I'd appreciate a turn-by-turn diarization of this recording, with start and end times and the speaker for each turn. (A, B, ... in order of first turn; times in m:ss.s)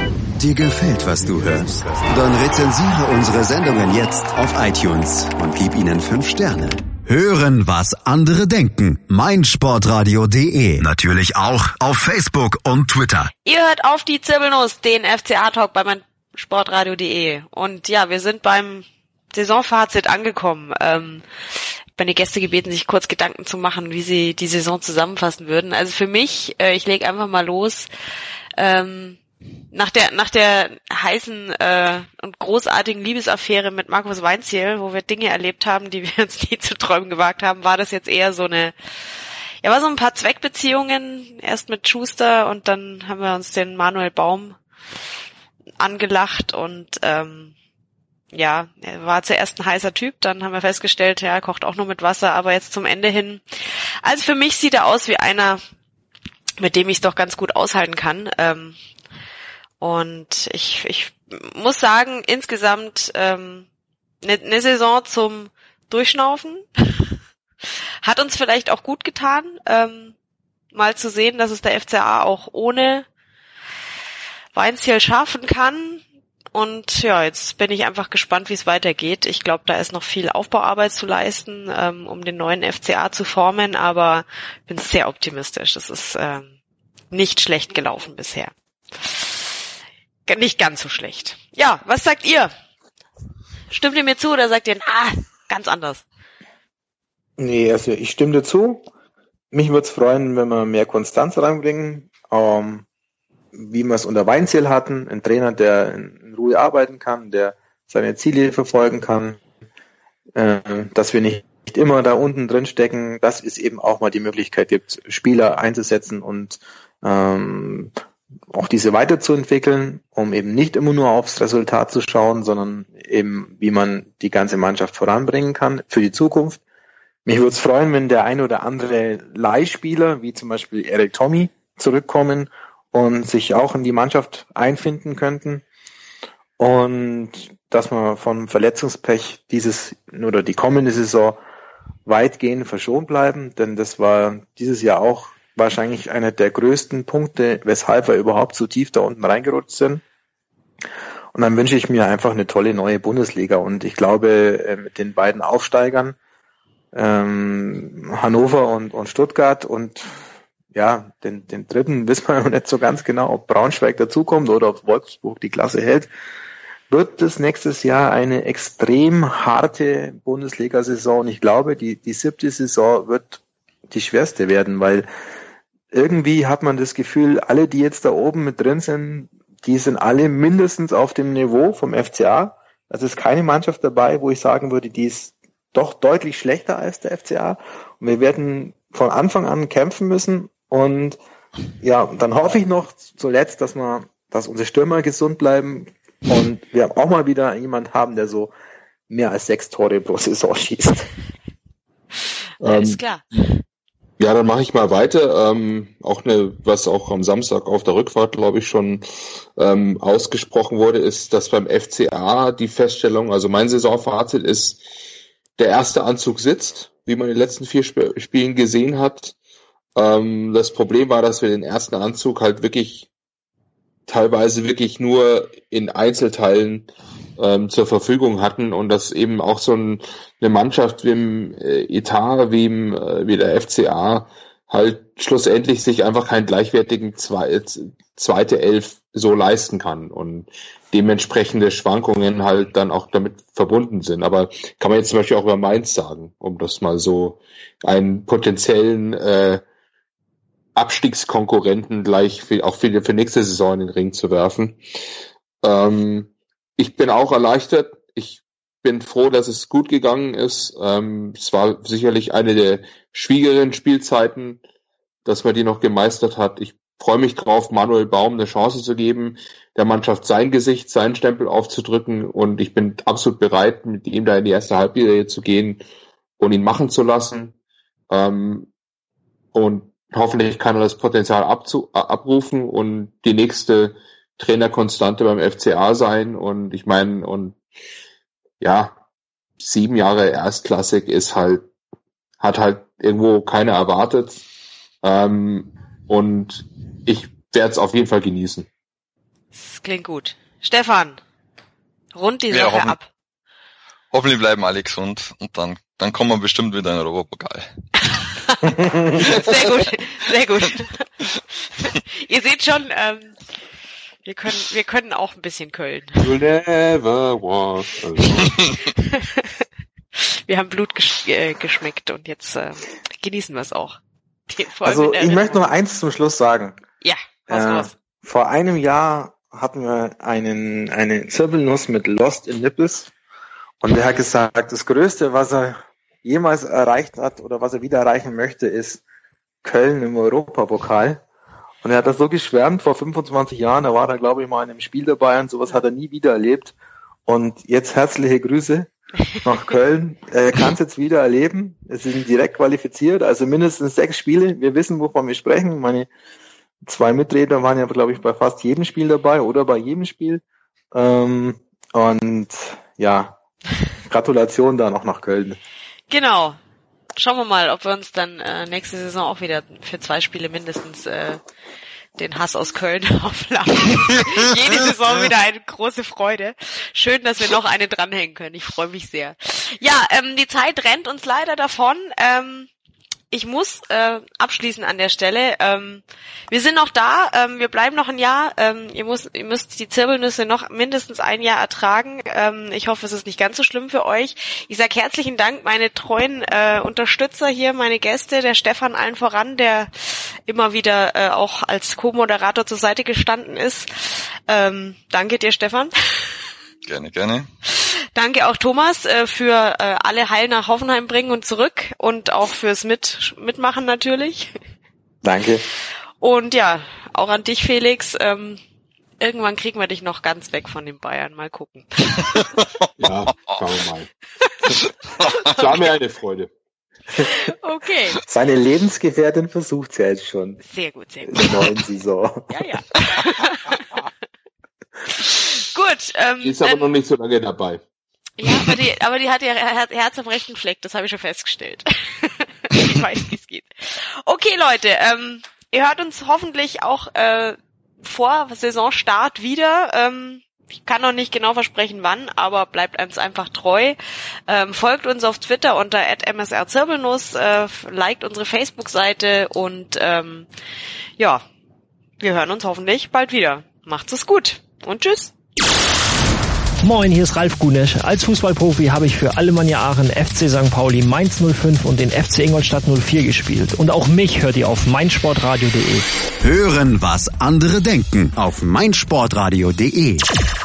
0:00.4-0:13.3 A
0:13.4-0:21.2 B
0:22.0-0:27.9 B
0:28.6-0:29.2 B
0:29.7-0:38.8 B
0:39.6-0:44.6 B
0:45.8-0:47.5 B
0:48.3-0:53.4 B
0:54.0-0:55.6 B
0:56.6-0:58.8 B
0:59.8-1:03.7 B
1:04.2-1:07.1 B
1:08.0-1:10.2 B
1:10.7-1:13.1 B
1:14.5-1:26.5 B
1:27.1-1:29.6 B
1:30.3-1:32.5 B
1:33.7-1:36.0 B
1:37.4-1:38.9 C
1:39.5-1:42.8 C
1:43.5-1:49.4 C
1:50.4-1:57.9 C
1:58.5-2:06.6 C
2:07.2-2:15.6 C
2:16.6-2:21.4 C
2:22.1-2:30.0 C
2:31.3-2:36.2 C
2:36.9-2:40.2 C
2:40.7-2:46.1 C
2:46.9-2:55.1 C
2:55.9-3:11.2 C
3:11.8-3:18.5 C
3:19.1-3:21.1 C
3:22.6-3:23.4 D
3:22.6-3:23.2 B
3:24.2-3:29.0 D
3:29.6-3:34.8 D
3:35.6-3:39.4 D
3:40.0-3:43.1 D
3:44.1-4:09.6 D
4:10.8-4:14.8 D
4:15.6-4:24.6 D
4:25.2-4:35.8 D
4:36.4-4:37.5 D
4:38.1-4:38.7 D
4:39.5-4:47.6 D
4:48.6-4:49.0 D
4:49.6-4:51.7 D
4:52.4-4:54.4 D
4:55.0-4:58.7 D
4:59.5-5:01.2 B
5:02.2-5:03.1 B
5:02.5-5:03.0 E
5:04.1-5:07.7 E
5:08.2-5:11.1 B
5:08.8-5:09.1 C
5:11.7-5:13.4 B
5:14.3-5:16.2 B
5:16.2-5:18.6 D
5:19.0-5:19.6 B
5:20.2-5:24.0 B
5:24.5-5:25.7 B
5:24.8-5:26.8 C
5:27.0-5:27.9 B
5:27.5-5:33.1 C
5:33.8-5:39.0 C
5:39.6-5:41.2 C
5:41.8-5:46.8 C
5:47.3-5:48.9 C
5:49.4-5:56.1 C
5:56.8-6:03.4 C
6:04.0-6:05.6 C
6:06.1-6:06.6 B
6:07.2-6:11.4 B
6:12.2-6:22.7 B
6:23.3-6:45.9 B
6:46.8-6:47.5 E
6:47.8-6:54.5 B
6:55.2-6:55.7 C
6:56.2-6:58.6 B
6:59.2-7:02.5 B
7:03.0-7:04.1 D
7:05.5-7:06.5 D
7:07.2-7:08.2 B
7:08.3-7:10.6 C
7:10.6-7:11.7 B
7:11.3-7:12.5 C
7:12.5-7:13.9 B
7:15.1-7:16.9 B
7:16.4-7:17.8 D
7:18.4-7:34.0 B
7:34.5-7:40.5 B
7:41.2-7:41.4 B
7:42.2-7:45.3 B
7:46.8-7:56.1 F
7:56.4-8:00.3 A